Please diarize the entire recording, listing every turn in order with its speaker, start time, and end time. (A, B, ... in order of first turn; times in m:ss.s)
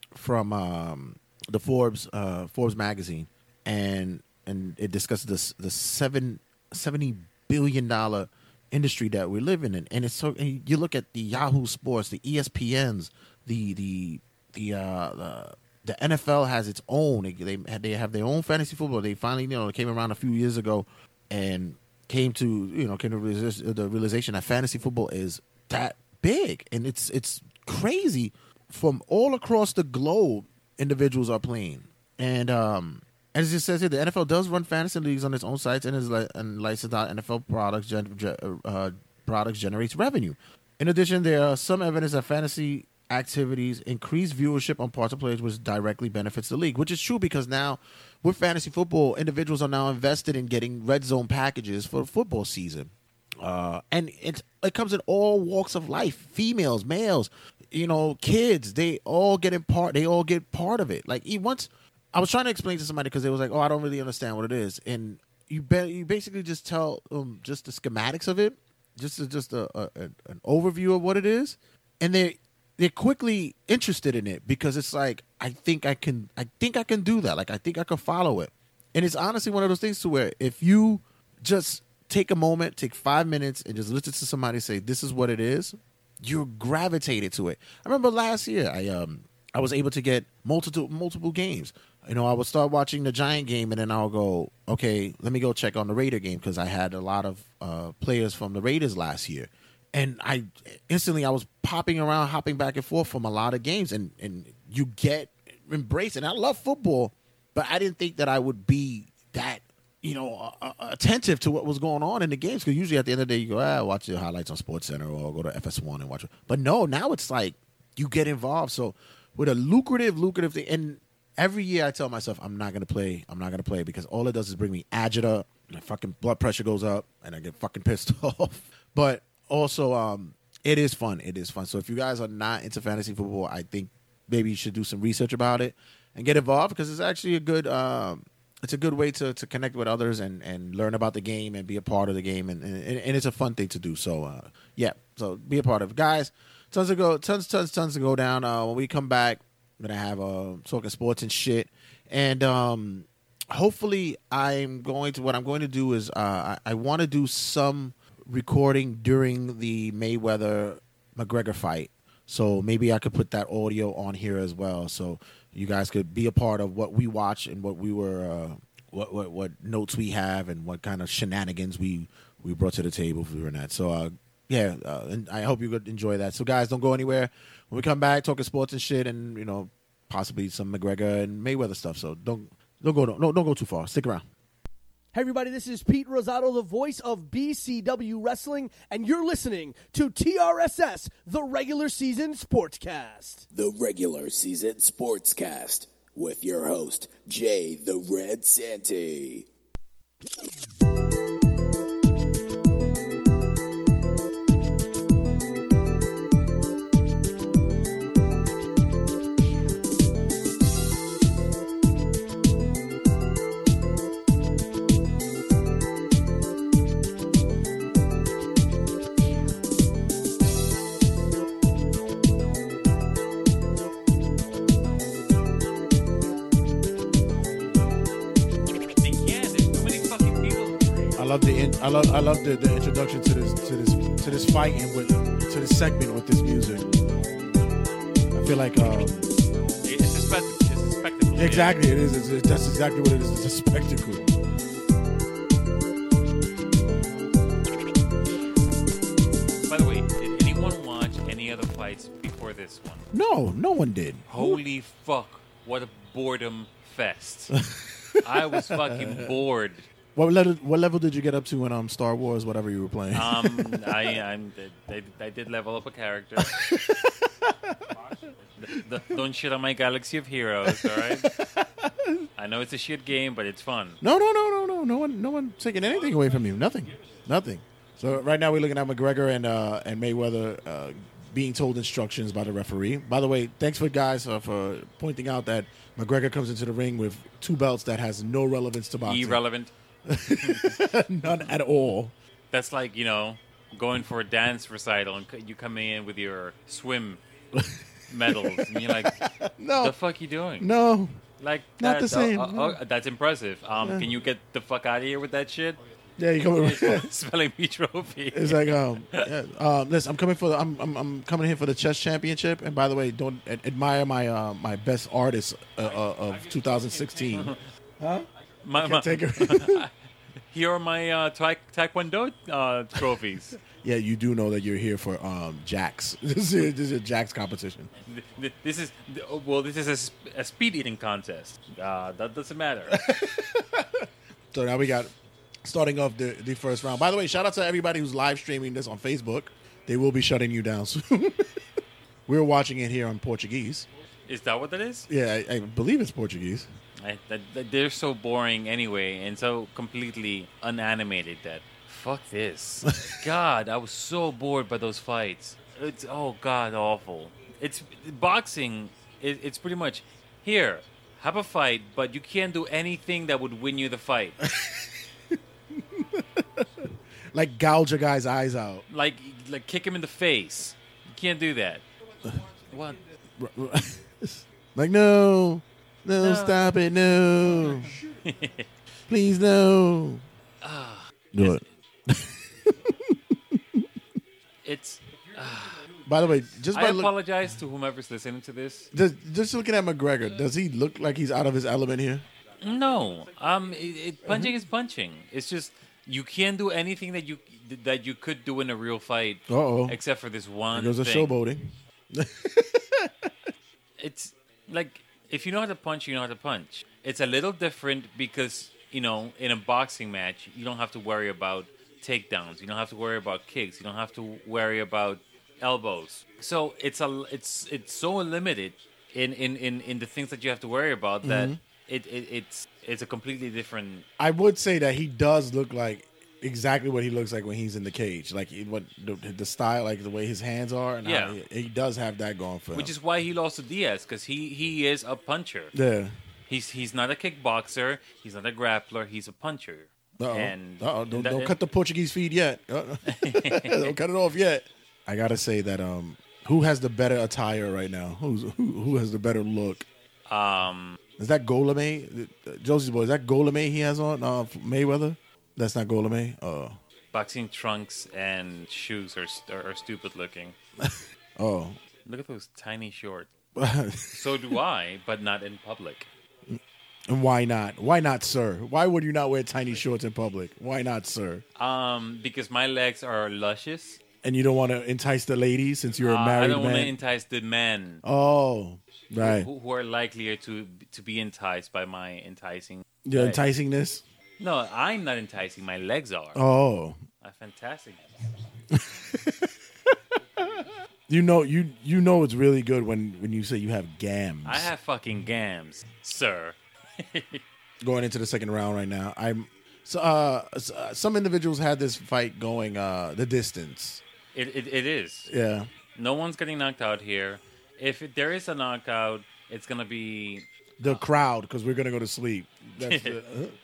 0:00.1-3:04.2 A
3:05.1-3:13.4 B
3:13.5-3:19.4 C
3:49.0-3:51.1 D
3:51.2-3:56.9 A
3:58.3-3:59.3 A
3:59.8-4:01.8 D
4:01.4-4:04.3 A
4:09.7-4:13.0 D
4:13.1-4:14.6 A
4:14.3-4:17.5 D
4:17.5-4:19.3 A
4:18.2-4:19.8 D
4:20.2-4:24.2 A
4:23.1-4:26.5 D
4:26.4-4:27.9 A
4:28.6-4:31.3 D
4:30.6-4:32.3 A
4:32.4-4:34.0 D
4:34.0-4:49.4 A
4:49.0-4:49.7 D
4:50.1-4:52.1 A
4:50.4-4:51.5 D
4:52.5-4:57.2 D
4:57.5-5:00.0 A
4:58.1-4:59.2 D
4:59.8-5:00.7 D
5:00.6-5:01.2 A
5:01.4-5:05.8 D
5:01.8-5:02.8 A
5:03.8-5:04.1 A
5:06.2-5:07.1 A
5:06.6-5:09.2 D
5:08.3-5:19.8 A
5:18.6-5:19.9 D
5:20.5-5:23.6 D
5:23.7-5:27.9 A
5:28.0-5:32.9 D
5:32.9-5:35.1 A
5:35.6-5:41.5 A
5:42.3-5:43.9 A
5:44.3-5:45.1 D
5:45.1-5:46.7 A
5:47.0-6:04.4 D
6:04.4-6:04.9 A
6:05.9-6:08.8 A
6:08.9-6:11.8 D
6:12.7-6:13.0 D
6:13.4-6:18.0 A
6:16.2-6:16.7 D
6:17.6-6:18.7 D
6:19.1-6:20.2 A
6:20.6-6:21.6 D
6:21.3-6:23.8 A
6:24.6-6:25.8 D
6:26.0-6:27.1 A
6:26.7-6:28.9 D
6:28.9-6:32.2 A
6:32.6-6:41.4 D
6:34.2-6:34.5 A
6:39.5-6:40.0 A
6:40.7-6:43.3 A
6:44.0-7:04.1 D
7:01.2-7:01.6 A
7:04.2-7:12.9 A
7:11.0-7:11.4 D
7:12.7-7:15.7 D
7:15.7-7:16.1 A
7:16.5-7:21.6 D
7:20.2-7:29.8 A
7:23.1-7:23.9 D
7:30.3-7:31.0 D
7:31.2-7:36.8 A
7:37.1-7:40.6 D
7:40.8-7:41.8 A
7:42.0-7:43.3 D
7:43.6-7:44.6 A
7:44.1-7:46.1 D
7:46.5-7:51.4 A
7:51.6-7:54.0 D
7:54.2-7:56.9 A
7:56.0-7:58.0 D
7:58.0-7:59.5 A
7:59.1-8:03.4 D
8:03.0-8:04.0 A
8:04.4-8:06.4 D
8:06.3-8:07.0 A
8:07.2-8:08.1 D
8:08.7-8:09.5 A
8:10.6-8:14.7 A
8:14.4-8:17.4 D
8:17.8-8:24.0 A
8:24.3-8:25.3 D
8:25.3-8:25.7 A
8:26.0-8:31.0 D
8:30.8-8:33.5 A
8:32.8-8:33.2 D